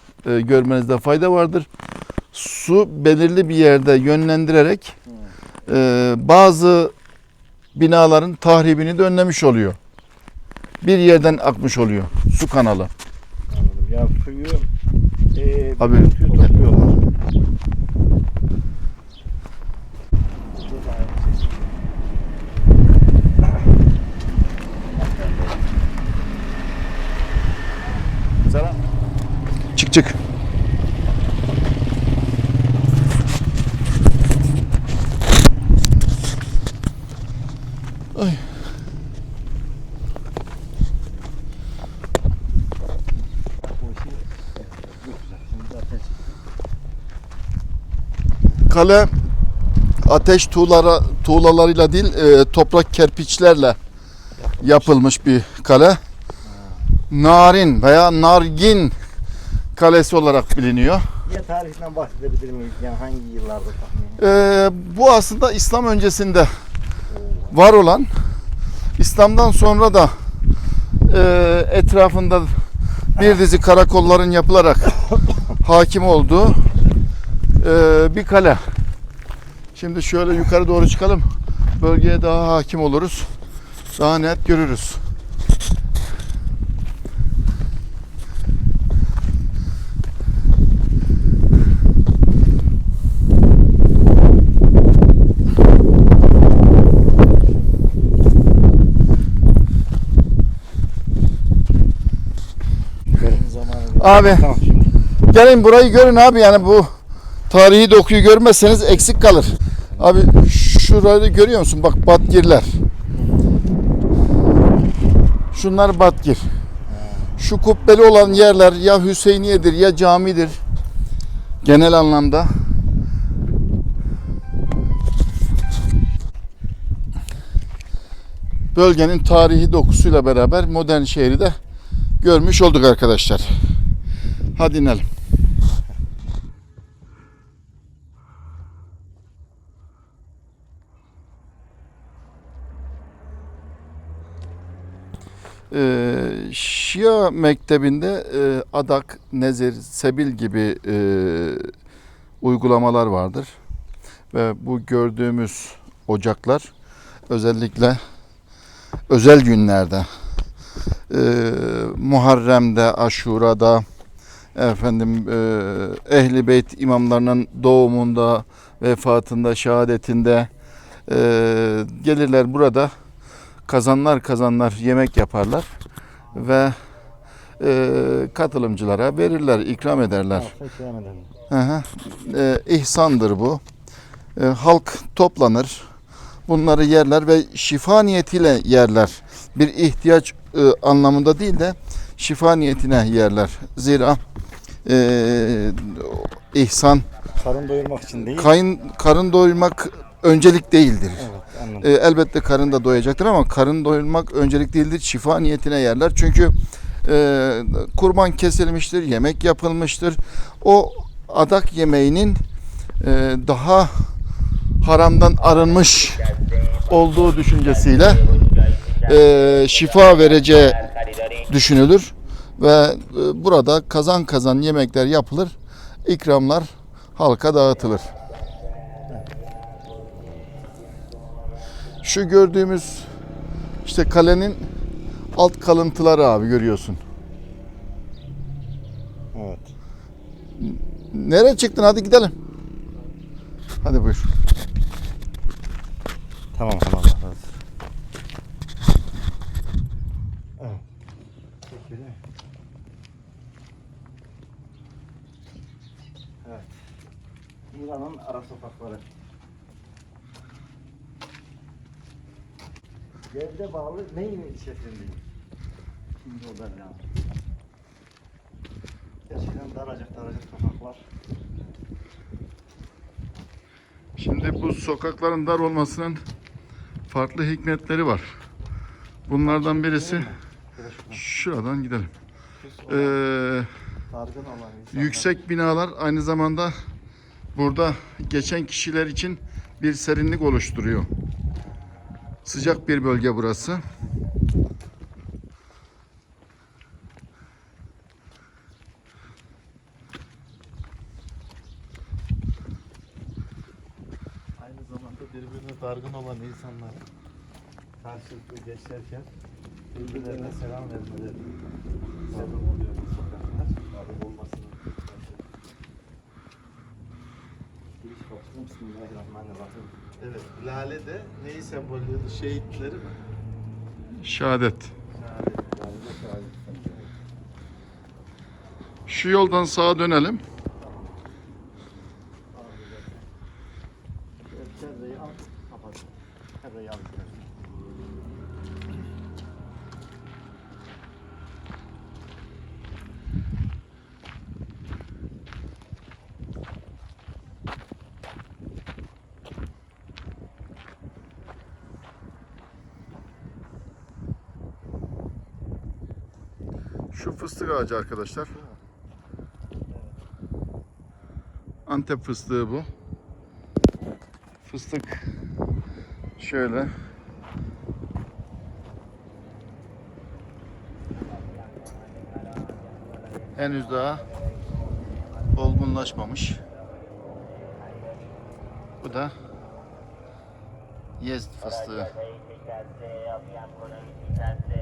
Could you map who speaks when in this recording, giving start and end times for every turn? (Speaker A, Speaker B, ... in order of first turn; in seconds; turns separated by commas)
Speaker A: 0.2-1.7, Speaker A: 2.3-5.0, Speaker B: 5.1-5.3, Speaker A: 5.7-6.9, Speaker A: 7.7-9.8, Speaker A: 10.8-12.9, Speaker B: 13.5-14.7, Speaker B: 15.3-17.0, Speaker A: 15.8-16.5, Speaker B: 20.6-21.4, Speaker B: 25.0-25.6, Speaker A: 28.5-28.8, Speaker A: 29.7-30.2, Speaker A: 38.1-38.5, Speaker B: 43.6-46.4, Speaker A: 48.6-49.1, Speaker A: 50.0-53.8, Speaker B: 54.4-54.9, Speaker A: 54.6-56.0, Speaker B: 56.4-57.0, Speaker A: 57.1-59.0, Speaker A: 59.8-61.1, Speaker B: 61.2-64.3, Speaker A: 64.2-66.5, Speaker B: 67.1-67.6, Speaker A: 67.5-68.1, Speaker A: 69.0-70.2, Speaker A: 71.1-72.5, Speaker A: 73.2-75.0, Speaker A: 75.6-76.6, Speaker A: 77.6-78.6, Speaker A: 79.7-83.3, Speaker A: 84.0-85.0, Speaker B: 103.1-104.9, Speaker A: 104.0-104.5, Speaker A: 105.3-106.9, Speaker A: 107.5-112.8, Speaker A: 115.5-116.5, Speaker B: 116.9-117.4, Speaker A: 117.4-120.6, Speaker A: 121.6-122.5, Speaker A: 128.7-131.6, Speaker A: 132.2-133.6, Speaker A: 134.6-135.1, Speaker A: 145.7-151.7, Speaker A: 152.4-153.5, Speaker A: 154.3-156.7, Speaker A: 157.3-158.0, Speaker A: 159.1-160.1, Speaker A: 161.1-163.8, Speaker A: 164.5-170.5, Speaker A: 171.1-172.9, Speaker A: 173.7-175.7, Speaker A: 176.3-176.7, Speaker A: 177.6-180.5, Speaker B: 180.3-181.3, Speaker A: 181.5-183.6, Speaker A: 184.3-185.9, Speaker A: 186.5-194.2, Speaker A: 194.8-197.1, Speaker B: 197.4-198.5, Speaker A: 198.2-201.3, Speaker B: 201.2-201.9, Speaker A: 201.8-212.4, Speaker A: 213.0-214.1, Speaker A: 214.8-228.1, Speaker A: 232.0-233.1, Speaker A: 233.8-234.7, Speaker A: 235.3-237.0, Speaker B: 239.3-239.7, Speaker A: 240.6-242.3, Speaker A: 243.8-244.3, Speaker B: 246.5-247.6, Speaker B: 251.7-252.2, Speaker B: 256.4-256.7, Speaker B: 257.7-259.1, Speaker B: 263.3-265.2, Speaker B: 266.2-267.0, Speaker B: 269.3-271.0, Speaker A: 274.2-276.2, Speaker A: 277.1-278.3, Speaker A: 279.3-280.3, Speaker B: 279.4-281.3, Speaker A: 281.1-282.1, Speaker B: 282.6-283.1, Speaker A: 282.9-283.7, Speaker B: 284.1-285.4, Speaker A: 284.9-286.7, Speaker A: 287.5-291.1, Speaker A: 292.4-293.8, Speaker C: 304.6-307.0, Speaker B: 308.0-309.3, Speaker B: 309.9-311.5, Speaker C: 309.9-310.6, Speaker C: 312.3-315.3, Speaker B: 312.3-312.6, Speaker B: 314.1-314.8, Speaker B: 318.0-319.9, Speaker C: 320.2-323.2, Speaker A: 324.2-324.9, Speaker C: 325.2-325.6, Speaker B: 325.5-327.0, Speaker A: 329.1-330.4, Speaker B: 330.8-331.1, Speaker B: 332.5-333.2, Speaker B: 334.5-336.1, Speaker B: 336.6-337.5, Speaker A: 357.1-358.5, Speaker A: 361.9-362.9, Speaker A: 364.6-365.2, Speaker A: 366.4-366.9, Speaker A: 373.6-374.2, Speaker A: 375.5-376.6, Speaker A: 379.0-379.3, Speaker A: 381.2-382.3